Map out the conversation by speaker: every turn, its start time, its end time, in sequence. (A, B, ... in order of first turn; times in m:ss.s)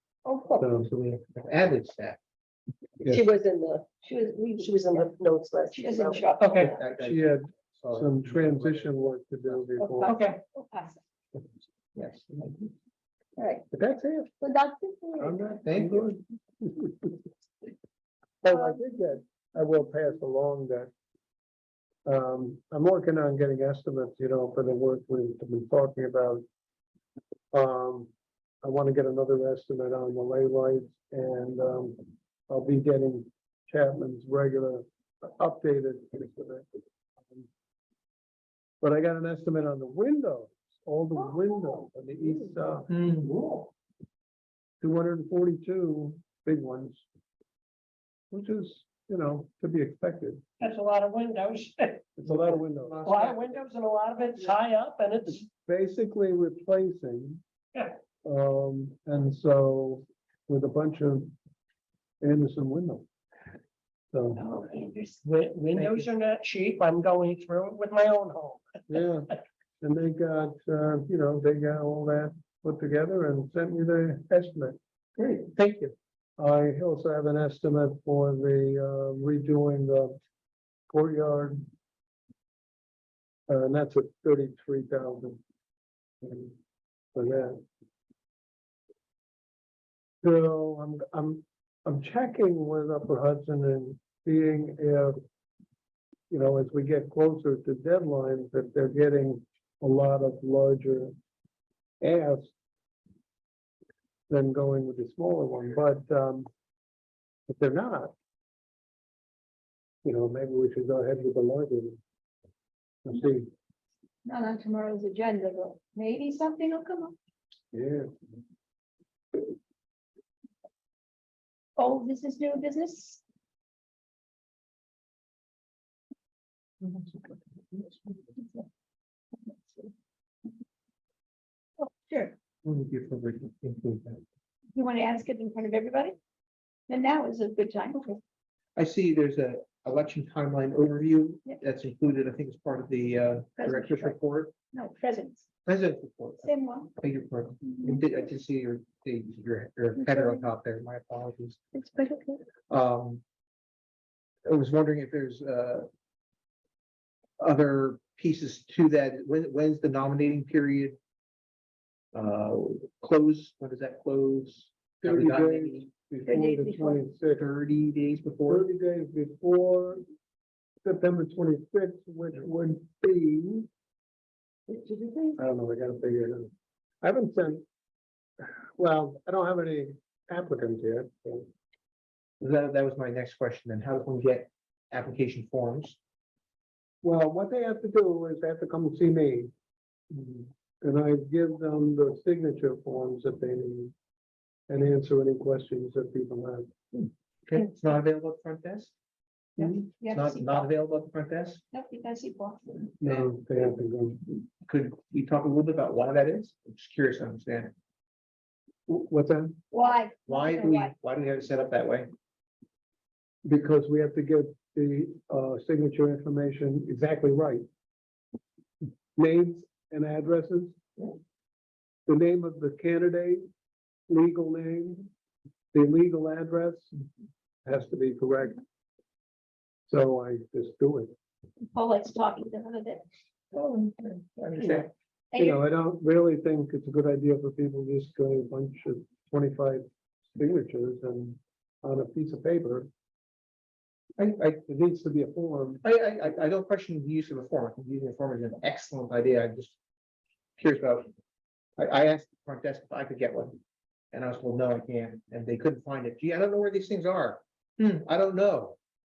0:00.2-0:00.7 A
0:00.6-0:00.9 B
0:00.7-0:02.2 C
0:03.0-0:03.9 D
0:04.0-0:05.1 A
0:04.6-0:06.3 D
0:05.7-0:06.6 A
0:06.4-0:10.2 B
0:06.4-0:06.7 E
0:06.5-0:09.7 C
0:09.8-0:11.0 A
0:10.0-0:10.4 E
0:11.9-0:12.7 C
0:13.4-0:13.7 A
0:13.7-0:14.3 B
0:14.4-0:15.5 A
0:15.2-0:17.2 B
0:15.6-0:16.2 C
0:18.4-0:20.9 B
0:18.4-0:18.8 A
0:22.0-0:26.4 B
0:27.5-0:28.1 B
0:28.6-0:36.6 B
0:37.2-0:37.5 B
0:38.8-0:42.9 B
0:41.2-0:42.5 A
0:42.9-0:43.7 C
0:44.8-0:47.0 B
0:48.3-0:50.4 B
0:50.6-0:55.4 E
0:52.2-0:53.0 B
0:52.3-0:53.7 C
0:55.4-0:57.4 B
0:58.2-1:01.3 B
1:02.2-1:03.1 B
1:04.1-1:04.4 B
1:04.4-1:05.2 A
1:05.2-1:08.6 E
1:05.7-1:06.0 C
1:08.9-1:14.8 B
1:15.2-1:15.9 C
1:16.4-1:20.2 B
1:20.9-1:21.6 B
1:23.5-1:25.4 B
1:26.2-1:26.6 B
1:27.1-1:27.6 B
1:30.2-1:35.2 B
1:36.3-1:41.1 B
1:42.0-1:42.5 B
1:44.3-1:46.5 B
1:47.5-1:48.1 B
1:50.0-1:52.0 B
1:53.0-1:53.5 B
1:54.2-1:57.1 A
1:57.7-1:58.1 B
2:01.8-2:03.2 A
2:06.8-2:08.6 C
2:11.8-2:12.3 A
2:12.6-2:14.2 C
2:14.7-2:16.2 A
2:16.9-2:18.1 A
2:18.8-2:24.5 C
2:23.6-2:24.2 A
2:24.7-2:25.4 A
2:25.6-2:31.6 C
2:26.4-2:26.9 A
2:30.0-2:30.5 A
2:31.7-2:32.4 A
2:32.7-2:33.2 C
2:34.4-2:35.9 C
2:37.4-2:41.0 C
2:42.1-2:45.9 C
2:45.0-2:47.4 B
2:46.2-2:47.0 A
2:47.3-2:48.7 C
2:48.5-2:50.0 B
2:50.8-2:53.7 B
2:54.7-2:56.5 B
2:57.0-2:57.6 B
2:58.4-3:01.5 B
3:02.4-3:06.0 C
3:07.0-3:09.5 B
3:10.1-3:13.9 B
3:14.7-3:16.7 B
3:16.9-3:18.9 C
3:19.6-3:20.7 A
3:20.0-3:21.6 C
3:21.7-3:22.9 A
3:23.0-3:24.2 B
3:23.0-3:23.8 C
3:24.6-3:27.7 C
3:28.9-3:29.6 B
3:29.7-3:30.9 A
3:30.3-3:32.1 C
3:33.4-3:37.6 B
3:39.2-3:40.8 B
3:42.1-3:43.4 B
3:44.1-3:45.1 B
3:45.7-3:46.9 B
3:47.6-3:48.6 B
3:49.9-3:51.1 B
3:51.7-3:53.0 A
3:53.5-3:54.9 C
3:55.3-3:55.6 A
3:55.4-4:02.9 B
4:04.3-4:05.8 B
4:05.8-4:09.7 C
4:10.6-4:11.1 C
4:11.8-4:13.6 C
4:14.1-4:18.8 C